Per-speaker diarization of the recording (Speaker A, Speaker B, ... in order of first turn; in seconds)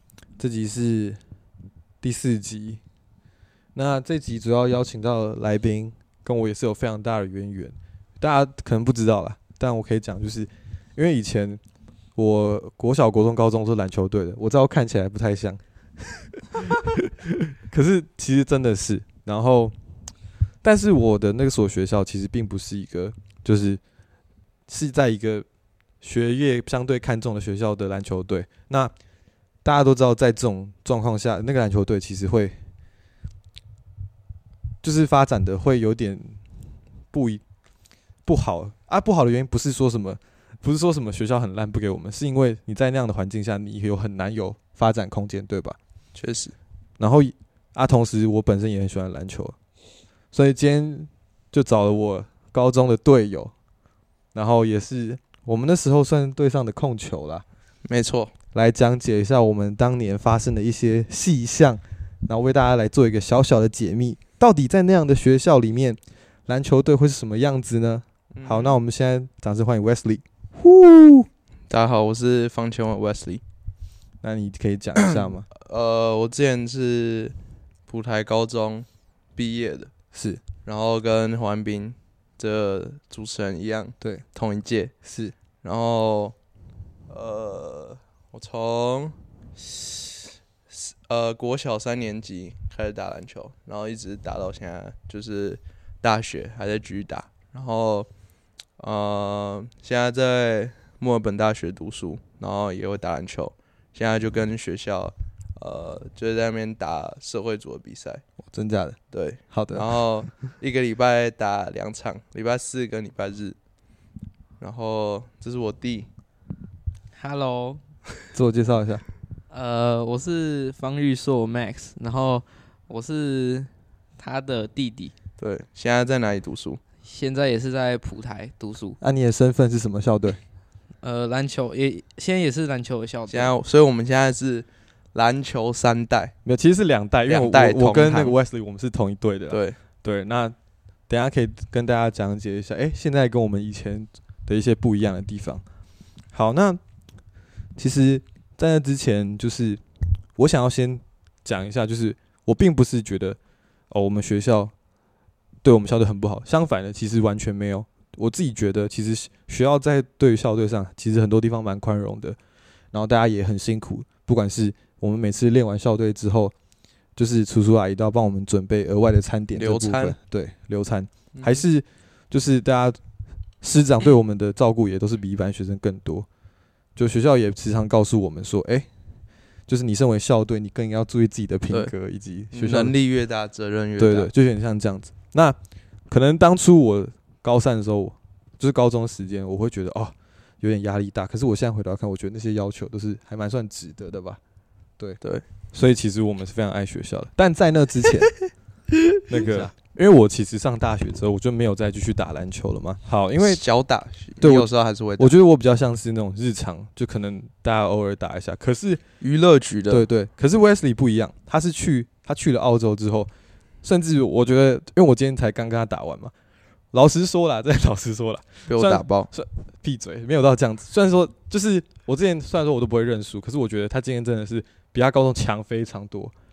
Speaker A: 0.4-1.2, 2.0-2.8, 3.8-11.6, 12.2-16.9, 17.7-19.8, 20.6-23.8, 24.7-25.5, 26.0-28.9, 29.6-32.6, 34.8-36.5, 37.1-37.4, 38.2-45.8, 47.0-49.6, 50.3-53.5, 54.3-57.4, 58.5-71.3, 74.2-75.5, 80.1-80.4, 85.0-85.3, 108.5-109.0, 109.5-110.0, 118.3-119.0, 129.0-130.4, 136.4-140.6, 141.1-145.6, 146.3-146.8, 147.8-149.8, 150.3-153.4, 153.9-154.7, 155.6-162.4, 162.9-166.5, 167.2-173.0, 173.6-176.3, 177.0-178.9, 179.7-182.9, 184.0-185.6, 186.1-194.4, 195.7-198.4, 199.3-203.6, 204.4-209.0, 209.9-213.3, 213.8-216.3, 216.9-226.3
Speaker B: 46.1-46.5, 57.9-58.3, 68.3-68.8, 71.7-73.4, 75.0-77.3, 77.9-79.9, 80.7-84.9, 85.6-86.3, 87.1-98.1, 98.8-108.2, 109.1-113.6, 114.6-116.1, 125.4-126.8, 133.3-136.3, 137.3-138.3, 139.5-139.8, 169.6-170.2, 171.3-171.6, 182.5-184.3, 203.4-205.3, 209.2-210.1, 218.7-219.3
Speaker C: 117.1-117.8, 119.5-125.1, 127.0-129.0, 131.0-133.6